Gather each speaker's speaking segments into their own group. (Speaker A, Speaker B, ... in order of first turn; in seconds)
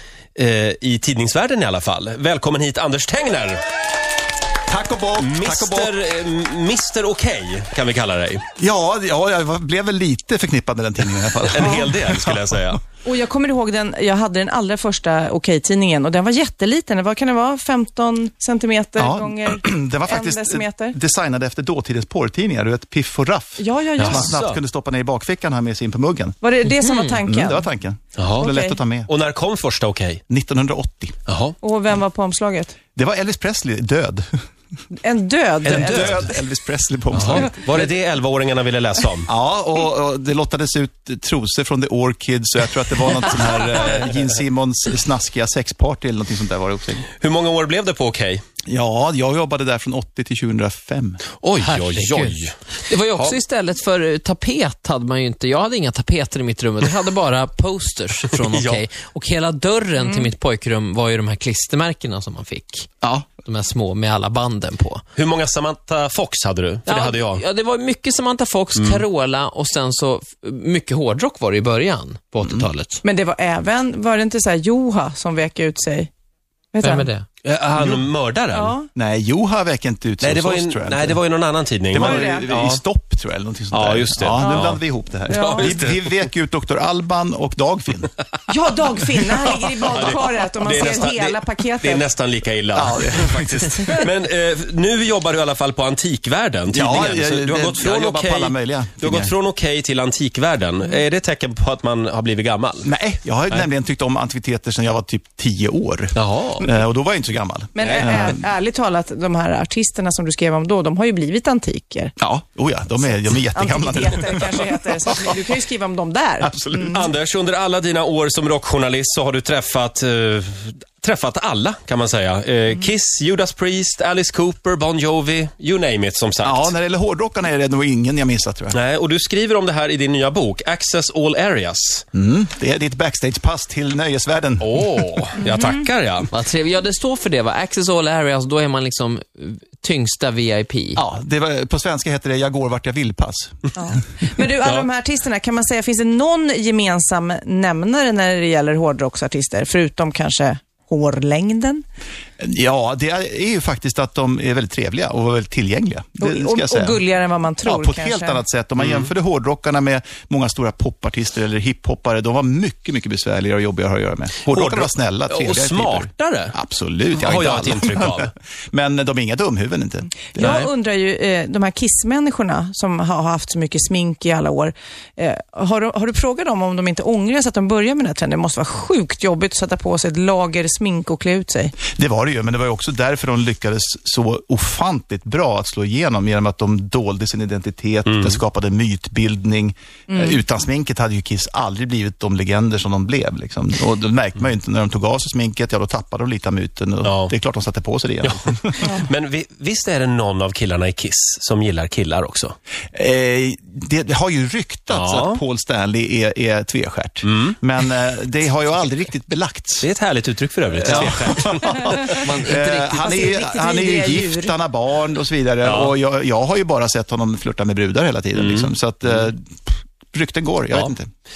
Speaker A: 0.4-3.6, 5.2-8.4, 11.5-12.8, 24.0-24.6, 28.2-28.5, 29.1-30.2, 31.3-31.6, 35.6-36.3, 37.1-39.3, 47.2-48.4, 51.4-52.6, 58.5-58.8, 65.2-67.4, 68.8-69.0, 77.4-78.8, 80.2-82.8, 83.7-86.1, 89.9-102.9, 106.2-106.7, 107.8-108.1, 116.9-126.7, 128.7-132.0, 134.6-136.3, 158.8-159.1, 164.5-166.6, 167.1-168.3, 170.4-170.7, 188.1-188.4, 197.0-197.3, 198.2-202.6, 204.9-205.4, 207.2-207.6, 209.8-211.7, 215.6-215.9, 218.4-218.7
Speaker B: 4.7-6.0, 8.6-12.8, 19.0-26.4, 27.3-29.1, 30.3-31.2, 33.0-34.3, 35.7-37.7, 39.3-47.1, 48.7-51.2, 63.0-63.3, 77.8-78.1, 79.0-81.2, 81.9-88.1, 92.7-94.1, 96.7-99.3, 102.8-108.5, 112.2-115.2, 116.4-117.1, 126.4-128.8, 132.1-135.0, 141.0-143.7, 152.4-157.0, 157.7-170.7, 181.9-198.8, 202.9-209.9, 210.8-221.1
Speaker C: 13.0-21.0, 23.6-24.3, 26.4-27.7, 28.4-28.8, 31.6-32.8, 35.0-36.3, 60.0-60.3, 73.0-76.1, 76.7-77.1, 78.5-78.9, 82.0-82.5, 84.4-84.8, 85.3-85.7, 88.5-92.1, 107.8-112.2, 113.5-117.0, 135.4-135.8, 143.8-151.8, 156.2-158.4, 170.3-181.8, 190.1-190.4, 213.0-214.6
Speaker D: 26.6-27.2, 51.6-65.0, 66.9-73.0, 76.8-77.2, 136.3-141.0, 210.8-211.3, 212.0-213.4